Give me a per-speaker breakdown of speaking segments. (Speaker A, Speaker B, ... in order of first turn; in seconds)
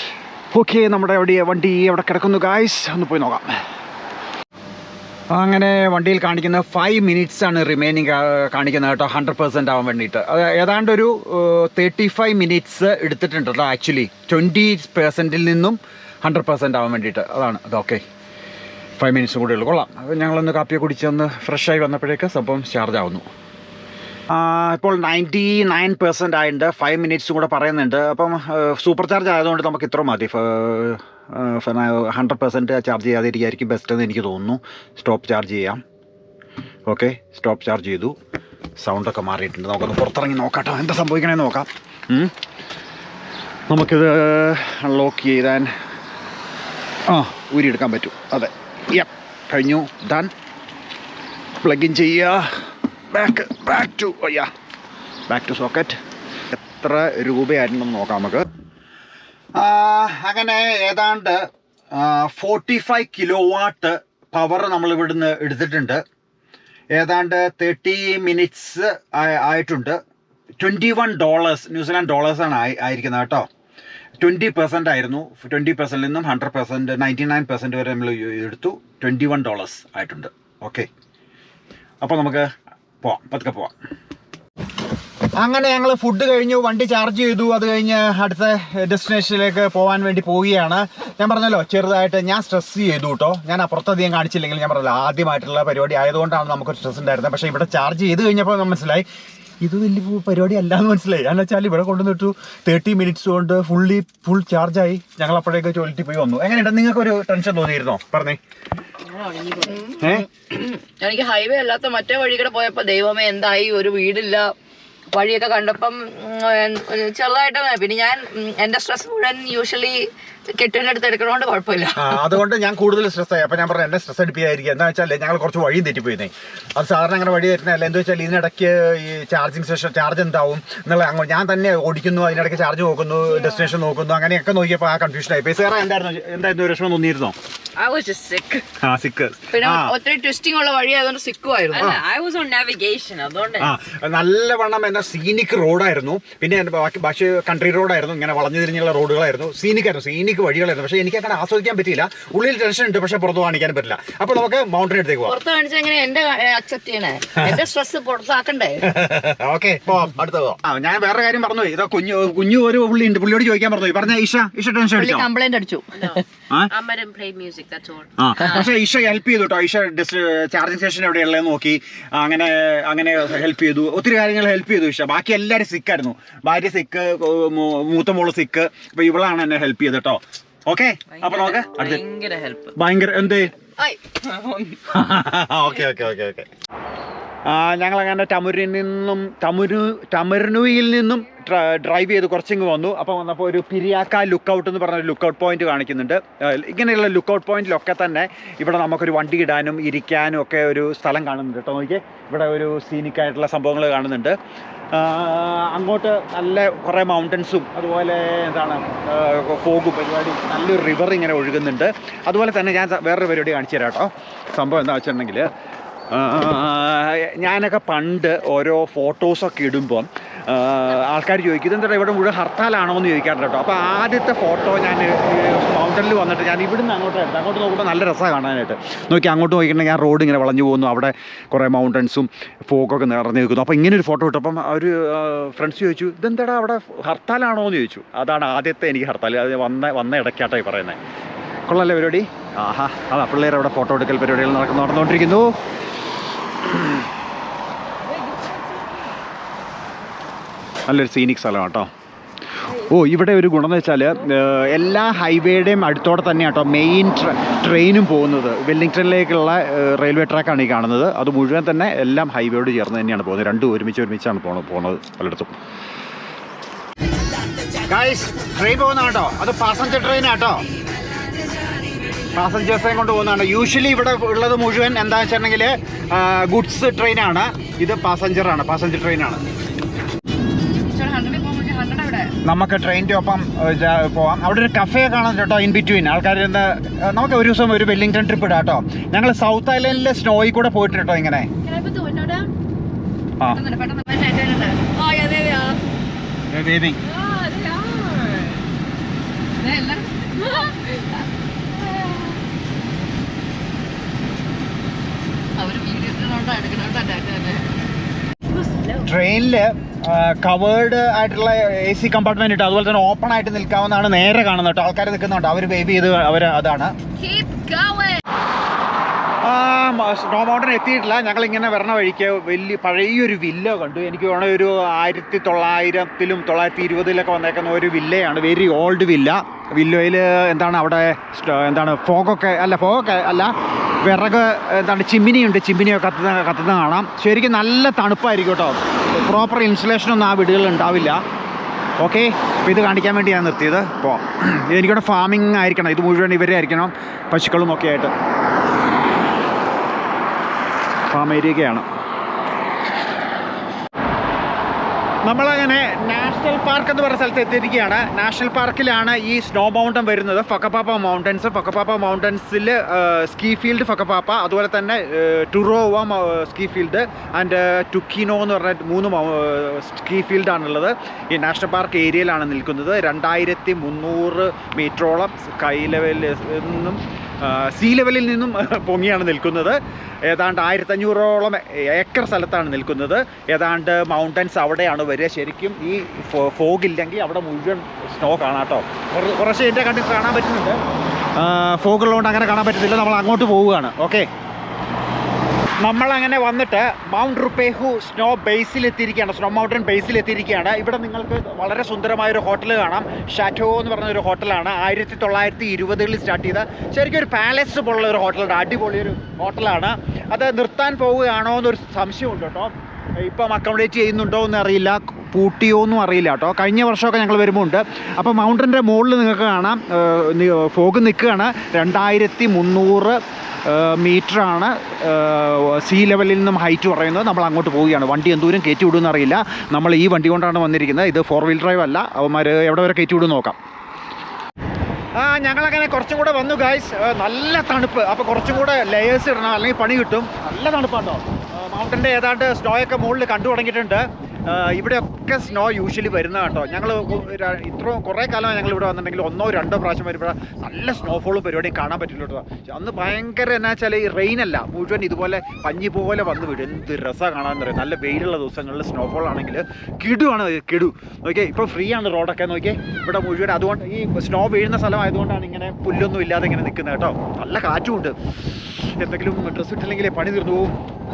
Speaker A: 0.5-3.5, 5.3-18.0, 19.0-23.2, 24.3-35.8, 36.9-38.1, 38.8-42.3, 43.7-45.7, 47.1-50.3, 51.6-52.5, 53.1-54.5, 55.3-56.0, 56.5-58.5, 59.5-66.0, 66.9-70.0, 70.6-73.5, 74.2-80.9, 82.0-82.5, 83.0-83.7, 85.4-99.1, 99.6-108.4, 110.0-110.3, 122.0-137.3, 138.8-139.9, 143.6-155.4, 158.8-165.3, 166.5-166.7, 168.2-182.1, 182.7-183.5, 184.8-186.5, 187.4-204.4, 204.9-215.5, 216.1-241.0, 241.7-245.5, 246.6-247.0, 250.9-251.9, 252.7-265.5, 267.9-270.6, 272.3-279.4, 282.4-291.5, 296.5-297.0, 309.0-316.9, 319.4-333.5, 334.0-341.2, 342.0-348.1, 351.1-351.9, 355.2-390.8, 391.4-394.3, 395.8-433.6, 435.1-468.1, 468.8-470.7
Speaker B: 109.1-114.5, 115.1-122.3, 139.5-142.0, 155.3-158.9, 164.9-166.2, 280.8-282.3, 291.6-292.5, 293.5-295.8, 299.6-301.0, 305.6-307.6, 317.2-318.2
Speaker C: 137.8-138.7, 141.7-143.7, 166.7-168.1, 181.2-182.8, 184.1-184.8, 248.3-248.8, 297.1-298.6, 308.6-308.9